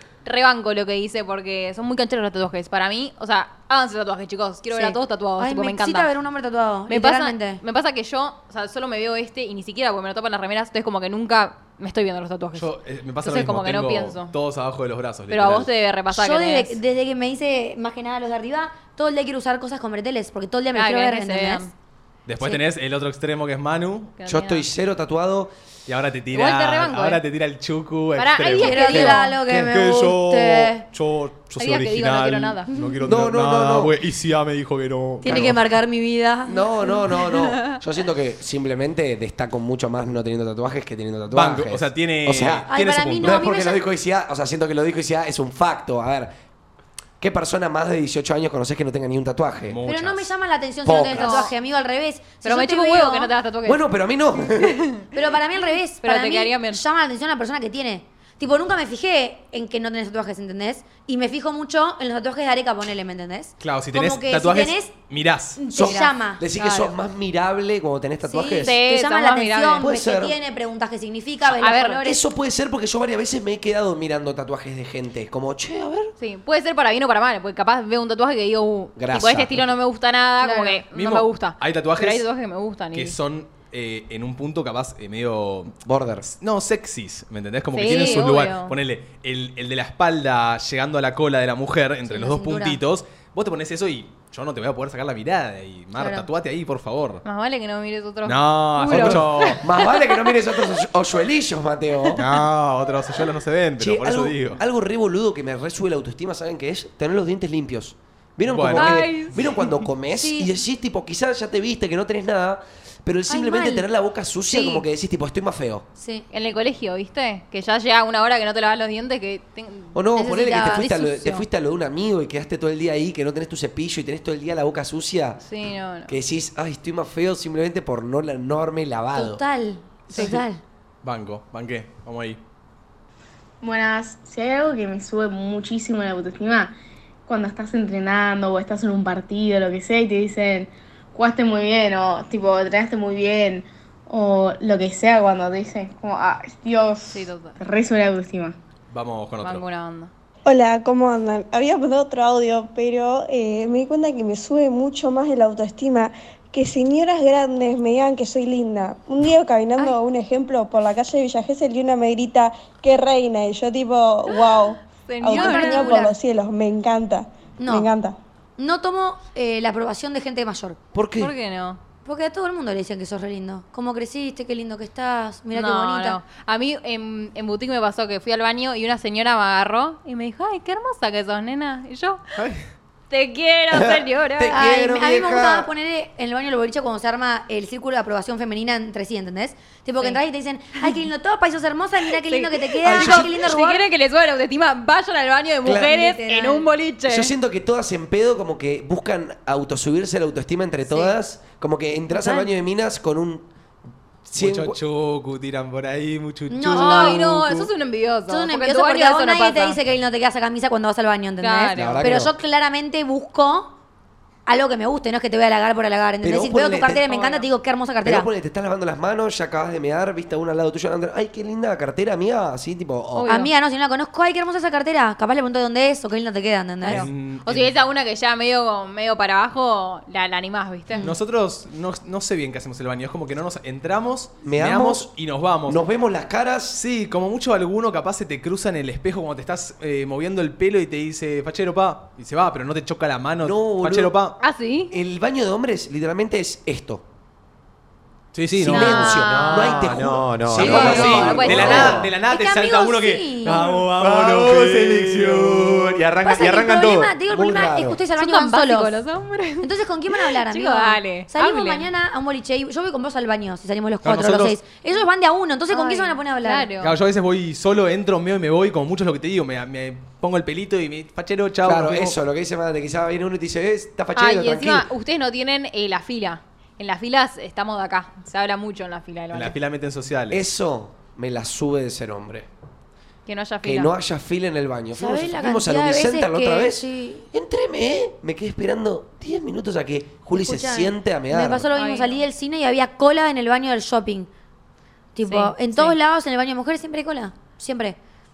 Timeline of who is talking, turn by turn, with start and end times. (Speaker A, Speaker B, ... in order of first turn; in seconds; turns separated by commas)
Speaker A: 0.2-6.1, Speaker B: 4.7-7.6, Speaker A: 6.9-12.7, Speaker C: 12.5-15.7, Speaker A: 13.2-14.3, Speaker A: 15.3-16.8, Speaker B: 16.1-21.6, Speaker A: 20.7-21.7, Speaker C: 22.2-24.1, Speaker A: 24.2-24.7, Speaker D: 24.2-25.5, Speaker C: 25.9-35.6, Speaker A: 26.3-27.2, Speaker A: 28.1-29.3, Speaker B: 28.6-30.8, Speaker A: 31.6-32.8, Speaker D: 33.0-33.9, Speaker B: 35.2-36.6, Speaker D: 36.5-42.7, Speaker C: 41.3-43.4, Speaker B: 42.7-43.8, Speaker D: 43.2-46.3, Speaker D: 47.2-49.8, Speaker C: 49.7-50.3, Speaker B: 49.9-53.3, Speaker D: 50.8-51.4, Speaker A: 50.9-51.5, Speaker A: 52.4-55.1, Speaker D: 53.6-54.8, Speaker B: 55.1-64.9, Speaker A: 56.0-56.8, Speaker C: 63.6-65.6, Speaker B: 65.6-66.9, Speaker D: 65.7-68.8, Speaker B: 68.2-72.2, Speaker A: 68.6-69.9, Speaker D: 69.8-70.3, Speaker A: 71.5-72.0, Speaker D: 72.0-76.1, Speaker A: 76.2-83.2, Speaker D: 79.0-79.7, Speaker B: 80.4-80.8, Speaker C: 80.9-82.3, Speaker C: 82.9-97.2, Speaker D: 85.8-86.3, Speaker A: 87.7-88.7, Speaker B: 92.1-92.8, Speaker B: 96.0-96.3, Speaker A: 97.2-100.3, Speaker C: 98.2-99.6, Speaker D: 98.9-102.2, Speaker C: 102.2-104.6, Speaker D: 103.8-115.8, Speaker C: 108.5-109.0, Speaker A: 108.7-109.7, Speaker B: 110.1-110.5, Speaker B: 113.3-113.8, Speaker B: 114.5-114.8, Speaker B: 116.0-116.2, Speaker A: 116.3-120.0, Speaker D: 119.9-125.4, Speaker B: 120.2-121.4, Speaker A: 125.4-126.1, Speaker D: 126.1-129.4, Speaker B: 129.1-130.6, Speaker A: 130.1-130.4, Speaker C: 131.0-132.4, Speaker E: 133.6-136.7, Speaker E: 137.2-148.6, Speaker A: 147.1-147.6, Speaker C: 148.9-149.6, Speaker A: 149.4-150.1, Speaker F: 150.4-168.2, Speaker A: 165.0-166.0, Speaker B: 165.3-166.1, Speaker B: 167.6-167.9, Speaker B: 168.6-170.8, Speaker D: 170.9-171.3, Speaker A: 171.2-171.8, Speaker B: 172.0-176.2, Speaker A: 175.5-182.2, Speaker C: 182.4-182.7, Speaker A: 183.1-184.6, Speaker D: 183.7-185.7, Speaker B: 184.5-193.8, Speaker A: 192.2-197.3, Speaker D: 192.8-193.4, Speaker D: 195.6-195.9, Speaker B: 195.8-196.7, Speaker D: 197.1-203.5, Speaker A: 200.9-201.1, Speaker D: 204.2-204.8, Speaker C: 204.3-207.7, Speaker B: 206.5-207.2, Speaker A: 206.7-209.8, Speaker B: 208.3-213.7, Speaker A: 211.4-212.1, Speaker D: 211.7-212.3, Speaker B: 214.4-218.3, Speaker D: 216.2-217.1, Speaker A: 217.1-217.4, Speaker D: 218.0-223.3, Speaker A: 223.1-223.5, Speaker B: 223.3-227.1, Speaker C: 226.8-227.7, Speaker A: 226.8-231.1, Speaker C: 231.0-235.8, Speaker D: 234.4-235.1, Speaker D: 235.7-236.8, Speaker C: 236.7-244.4, Speaker D: 243.4-244.2, Speaker A: 244.4-244.9, Speaker D: 244.9-247.0, Speaker C: 248.3-256.1, Speaker D: 248.6-252.1, Speaker A: 248.7-249.6, Speaker G: 249.2-252.1, Speaker A: 250.8-252.0, Speaker B: 252.2-253.7, Speaker G: 253.4-257.1, Speaker B: 256.2-259.0, Speaker D: 257.3-258.0, Speaker A: 258.1-261.9, Speaker B: 259.6-266.7, Speaker C: 264.0-264.6, Speaker A: 265.7-266.9, Speaker C: 266.8-272.2, Speaker D: 271.6-274.9, Speaker A: 274.1-279.5, Speaker C: 279.3-280.4, Speaker D: 280.3-282.5, Speaker A: 283.2-283.9, Speaker D: 283.6-291.6, Speaker B: 284.9-287.3, Speaker B: 290.3-294.3, Speaker A: 291.7-292.2, Speaker B: 295.1-298.0, Speaker A: 295.2-296.0